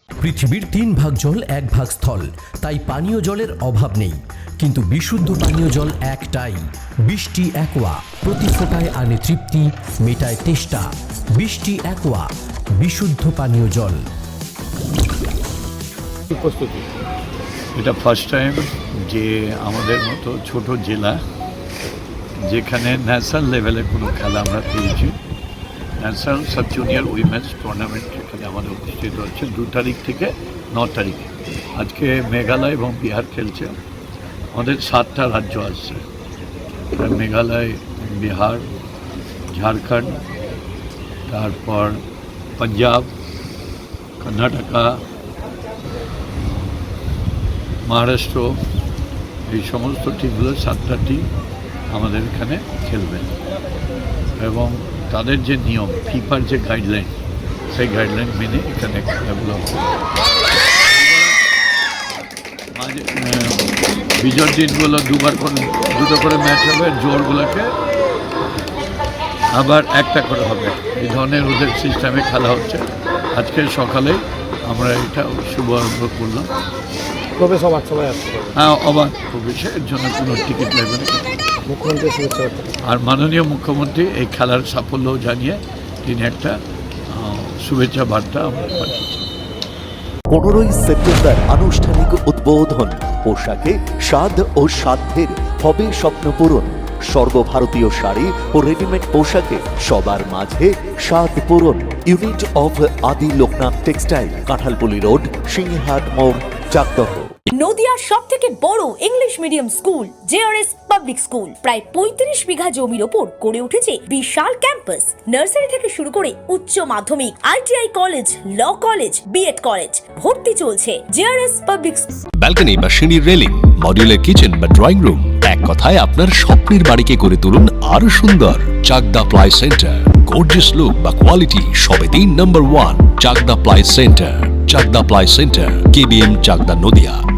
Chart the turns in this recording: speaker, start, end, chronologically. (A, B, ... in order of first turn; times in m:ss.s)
0:00.2-0:12.3 A
0:12.8-0:14.0 A
0:16.3-0:16.8 B
0:17.8-0:21.2 C
0:22.5-0:25.2 C
0:26.0-0:33.7 C
0:34.5-0:36.0 C
0:36.9-0:38.6 C
0:39.5-0:40.2 C
0:41.3-0:42.0 C
0:42.6-0:43.1 C
0:44.2-0:45.0 C
0:47.9-0:48.6 C
0:49.5-0:51.3 C
0:51.9-0:53.3 C
0:54.4-0:57.2 C
0:57.7-0:59.7 C
1:00.9-1:01.4 C
1:02.7-1:03.6 C
1:04.2-1:07.7 C
1:09.5-1:16.5 C
1:17.4-1:18.5 B
1:18.6-1:21.2 C
1:21.7-1:22.6 B
1:22.9-1:26.6 C
1:27.1-1:29.2 C
1:30.3-1:47.3 D
1:47.5-2:02.1 E
2:02.4-2:17.2 F